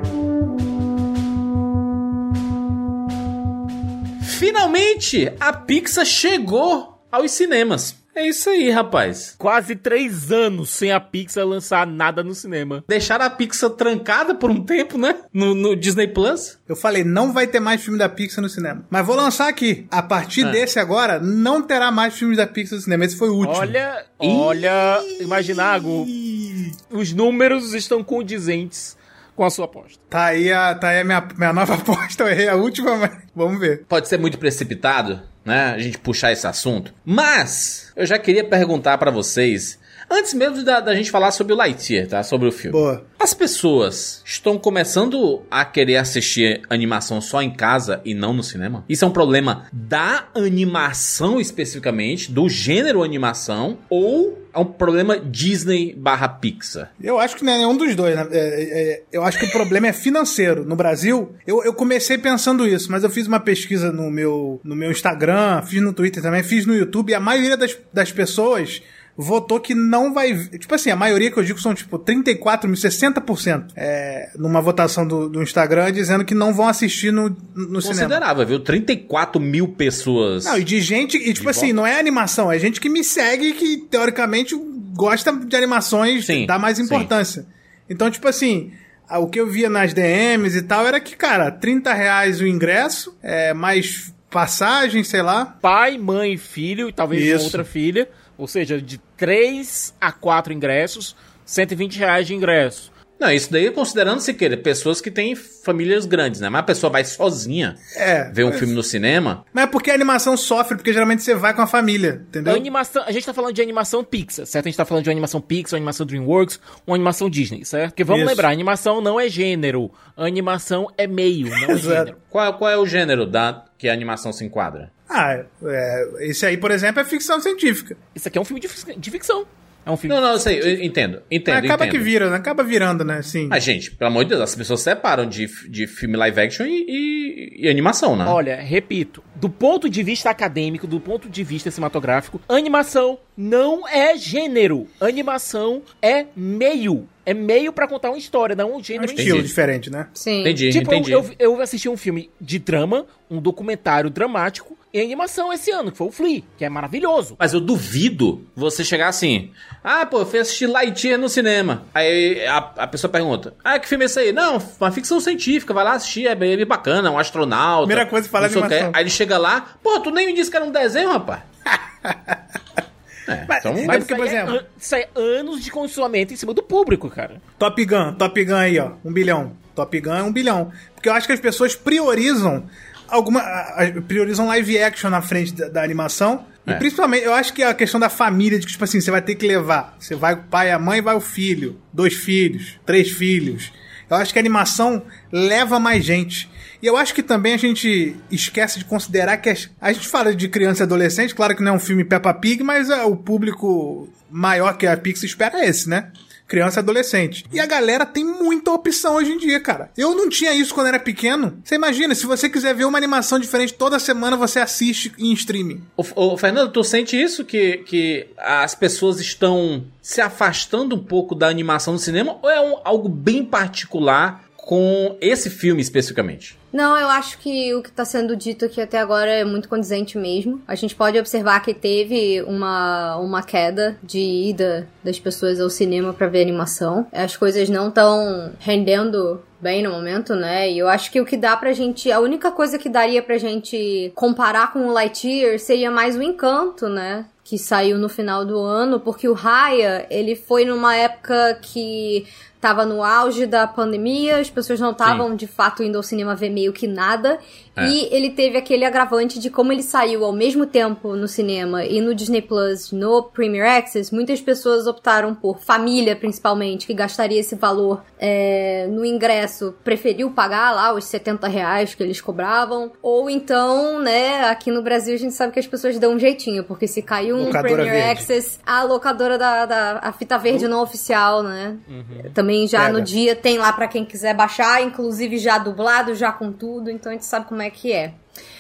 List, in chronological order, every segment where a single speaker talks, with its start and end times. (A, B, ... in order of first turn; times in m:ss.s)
0:04.2-0:09.4 A
0:09.4-0:12.8 B
0:12.9-0:16.6 A
0:16.7-0:26.8 C
0:23.4-0:26.1 B
0:26.9-0:30.0 B
0:30.1-0:33.8 C
0:33.9-0:56.9 A
0:42.7-0:43.0 C
0:57.0-1:18.2 C
1:17.8-1:20.6 A
1:20.4-1:35.5 C
1:21.4-1:21.8 A
1:26.2-1:27.1 A
1:35.6-1:42.9 B
1:37.1-1:37.6 C
1:43.2-1:47.8 A
1:47.9-1:48.7 C
1:48.3-1:49.4 A
1:49.5-1:52.7 C
1:52.4-2:02.2 B
1:58.1-1:58.5 C
2:01.7-2:02.1 C
2:02.3-2:04.9 A
2:05.1-2:08.0 C
2:08.2-2:10.8 B
2:10.1-2:12.1 A
2:11.5-2:13.6 C
2:13.5-2:18.4 A
2:18.2-2:29.5 B
2:29.0-2:30.1 C
2:29.2-2:29.5 A
2:30.2-2:30.6 D
2:30.4-2:31.2 A
2:30.7-2:37.4 B
2:37.4-2:51.5 A
2:47.8-2:49.0 C
2:52.0-2:52.4 C
2:53.3-2:54.0 A
2:53.5-2:54.6 C
2:53.8-2:57.4 B
2:57.6-3:35.9 C
3:36.0-3:46.6 A
3:46.7-4:48.2 D
4:15.0-4:15.3 A
4:37.4-4:38.3 C
4:37.4-4:37.7 B
4:41.9-4:42.4 B
4:42.8-4:43.1 C